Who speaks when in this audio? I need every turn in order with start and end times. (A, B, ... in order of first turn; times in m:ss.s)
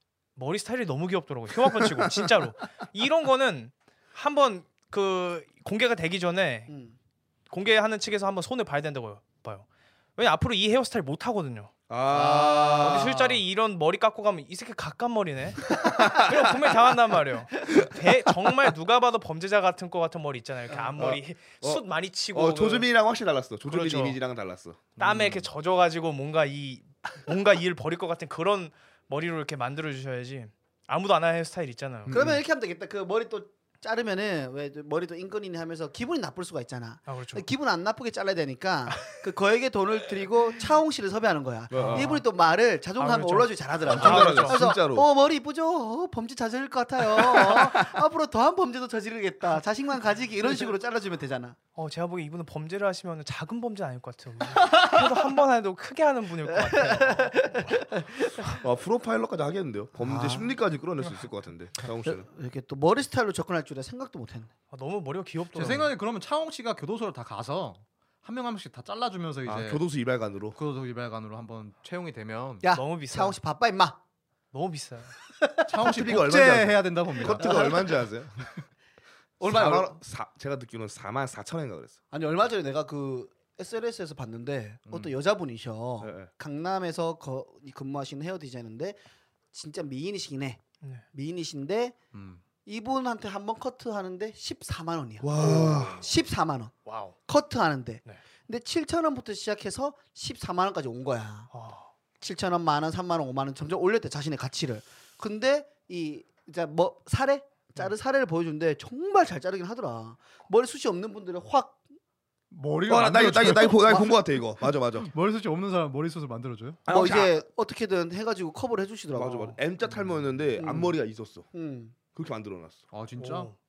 0:00.4-0:06.7 A
0:06.7-0:07.0 B
0:07.5-0:09.6 A
0:10.2-0:11.7 A
0:11.9-0:13.4 C
0:12.1-0:13.0 B
0:12.8-0:22.9 A
0:15.8-0:16.8 C
0:17.7-0:18.0 C
0:21.0-0:24.9 C
0:23.7-0:24.2 A
0:25.0-0:25.4 D
0:25.0-0:32.2 A
0:32.1-0:32.4 C
0:32.1-0:51.6 B
0:37.1-0:37.4 A
0:41.7-0:42.1 C
0:41.8-0:42.2 A
0:43.0-0:44.6 A
0:43.8-0:45.1 C
0:51.8-0:57.9 A
0:56.5-0:58.4 B
0:58.4-1:02.3 C
1:00.0-1:00.6 B
1:02.0-1:04.5 B
1:04.7-1:05.9 A
1:05.5-1:09.8 D
1:09.5-1:10.6 C
1:10.5-1:12.6 D
1:12.6-1:14.0 B
1:12.7-1:13.4 A
1:14.5-1:15.2 A
1:15.7-1:17.8 D
1:15.8-1:18.4 C
1:17.3-1:17.9 B
1:19.4-1:20.0 B
1:19.4-1:22.0 C
1:22.1-1:29.0 B
1:24.9-1:25.1 D
1:26.0-1:26.3 C
1:29.5-1:30.6 B
1:31.1-1:32.0 B
1:32.1-1:32.4 D
1:32.7-1:36.7 B
1:35.2-1:36.1 C
1:36.9-1:37.2 A
1:37.3-1:41.5 B
1:41.5-1:41.9 A
1:42.2-1:51.8 B
1:52.5-1:54.2 D
1:52.9-1:55.1 C
1:55.0-1:56.8 D
1:56.9-1:57.4 C
1:56.9-1:59.6 B
1:59.1-2:01.5 C
2:00.6-2:01.0 B
2:01.5-2:02.0 B
2:02.1-2:02.8 C
2:02.9-2:03.5 D
2:03.2-2:03.5 A